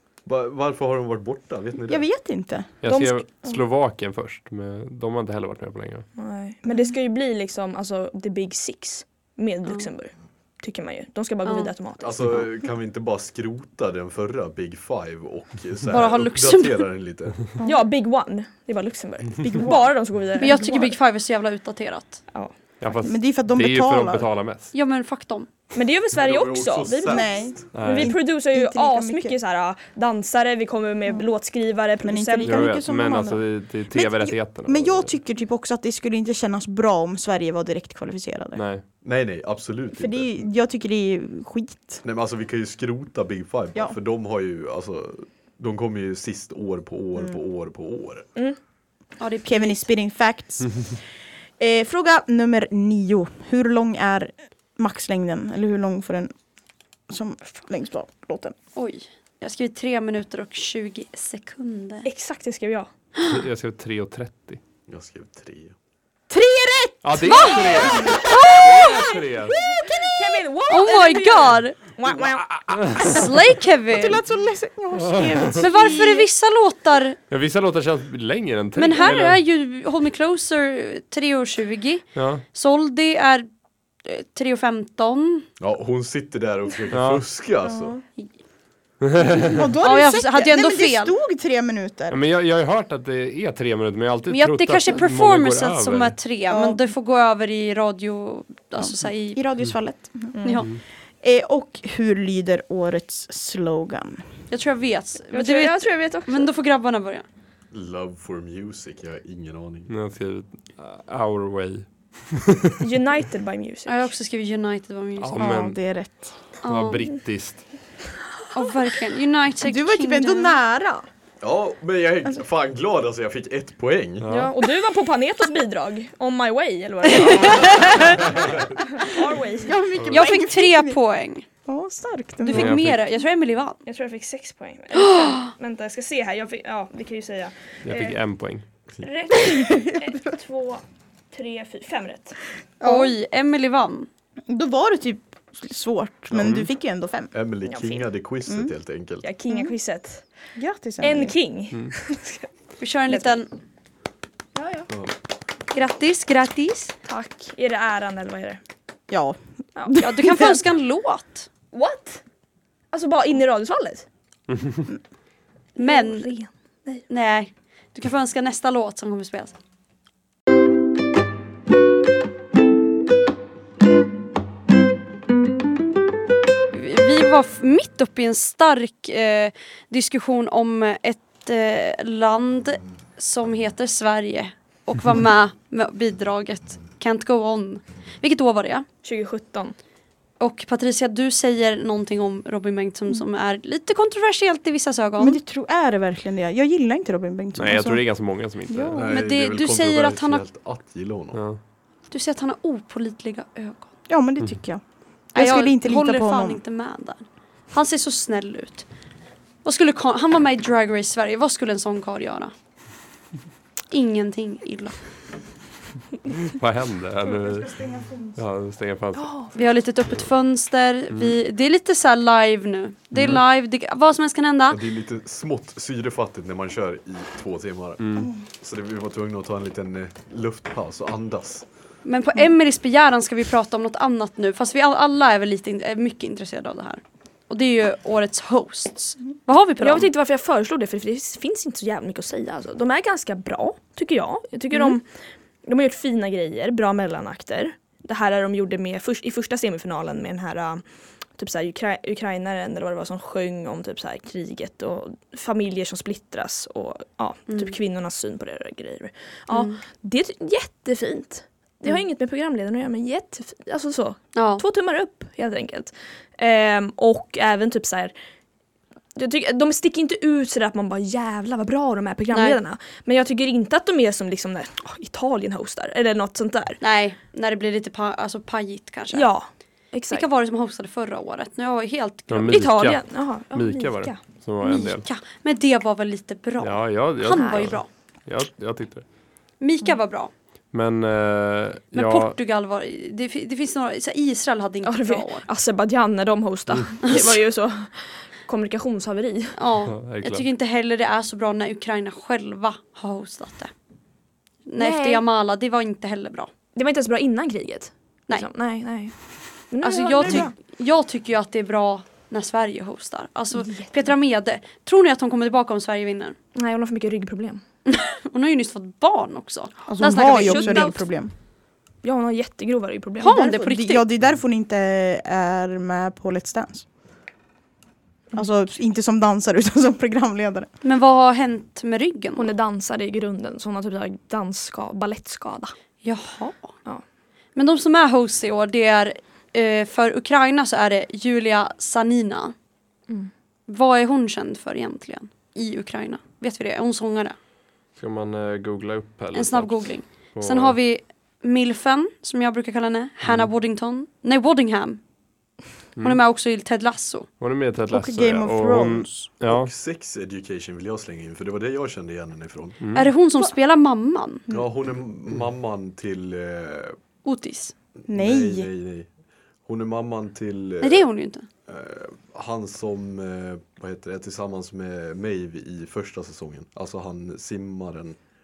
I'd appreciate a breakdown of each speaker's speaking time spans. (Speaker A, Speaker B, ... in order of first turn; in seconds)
Speaker A: 0.2-2.0, 12.0-17.4, 26.1-27.7, 39.0-40.3, 42.0-48.3, 64.9-65.7, 85.6-88.0, 107.7-109.9, 121.4-124.5, 147.3-149.3, 198.9-201.4, 224.7-231.7, 359.4-362.8, 364.5-367.0, 368.0-369.1, 369.6-371.1, 371.7-378.2
Speaker B: 1.9-2.7, 19.4-19.9, 23.0-24.3, 27.1-29.3, 32.0-38.6, 39.9-42.0, 49.4-51.0, 51.6-56.3, 57.1-58.5, 66.3-70.4, 73.9-76.3, 89.2-92.2, 96.5-96.8, 98.8-100.6, 101.2-104.2, 115.4-116.3, 119.6-121.1, 129.6-131.0, 131.7-132.8, 139.5-140.2, 142.8-143.1, 144.5-147.3, 148.5-148.7, 149.5-149.7, 150.6-151.3, 159.1-160.6, 195.2-198.0, 198.7-199.1, 204.1-204.8, 205.3-206.6, 217.3-218.4, 310.2-310.5, 319.9-321.3, 323.2-326.9, 328.3-330.7, 357.9-359.3, 368.1-368.7
Speaker C: 2.8-6.1, 22.8-24.7, 27.7-28.1, 32.4-35.1, 38.5-38.8, 63.2-64.6, 67.0-69.5, 72.6-73.2, 74.9-75.6, 77.3-79.4, 82.2-82.4, 86.9-87.2, 89.0-89.7, 92.1-96.2, 109.9-112.8, 115.2-115.8, 116.7-117.6, 124.2-124.5, 132.5-133.0, 137.8-138.7, 146.3-146.7, 164.5-164.9, 197.6-199.0, 201.3-201.6, 216.5-217.8, 218.3-219.5, 223.1-223.4, 228.0-228.3, 282.3-285.0, 286.6-289.0, 290.7-292.4, 299.9-300.4, 347.9-350.8, 353.2-353.5, 357.4-359.7, 362.8-363.1
Speaker D: 2.8-3.6, 6.2-12.4, 17.6-20.9, 25.7-32.7, 62.0-62.9, 69.5-72.6, 100.3-100.7, 105.3-106.5, 112.8-114.1, 124.3-129.8, 133.8-138.2, 139.0-142.4, 147.7-148.1, 149.2-150.2, 151.0-152.5, 153.1-153.3, 154.6-154.9, 157.1-158.6, 161.7-162.2, 162.9-164.1, 165.8-167.0, 189.0-189.7, 219.1-219.5, 239.8-245.0, 245.6-250.8, 251.3-268.1, 269.1-276.8, 279.1-280.2, 282.5-284.2, 287.3-287.7, 294.8-299.6, 304.8-305.2, 306.7-309.1, 309.7-310.5, 313.6-313.9, 316.5-317.6, 320.0-321.0, 322.0-323.4, 332.4-335.7
Speaker E: 11.4-11.7, 15.9-16.9, 20.4-22.2, 24.7-25.5, 49.2-49.9, 58.8-62.1, 67.2-69.2, 70.7-71.8, 73.0-74.2, 75.6-77.2, 78.8-83.5, 84.0-85.5, 89.8-91.1, 94.3-99.4, 100.4-100.7, 104.5-107.2, 113.8-115.5, 116.6-117.0, 118.5-120.6, 127.1-128.2, 130.1-131.4, 132.4-133.8, 134.9-135.5, 142.8-144.1, 152.8-153.5, 155.7-156.9, 160.0-161.5, 165.8-166.3, 167.1-169.5, 176.7-188.8, 190.4-195.4, 199.1-200.4, 202.1-203.9, 205.3-208.9, 209.6-212.5, 213.9-215.0, 219.5-224.8, 232.0-240.1, 257.5-257.7, 259.5-259.8, 264.3-264.6, 272.3-272.6, 276.8-279.3, 280.1-282.6, 284.6-287.9, 289.6-290.3, 291.9-295.4, 297.0-297.4, 299.6-303.7, 304.6-306.5, 309.8-316.4, 317.9-321.0, 323.2-324.1, 330.8-332.5, 336.0-336.7, 337.6-342.5, 343.7-347.4, 349.3-355.0, 356.0-357.3, 362.9-364.4, 367.2-367.7, 370.8-371.5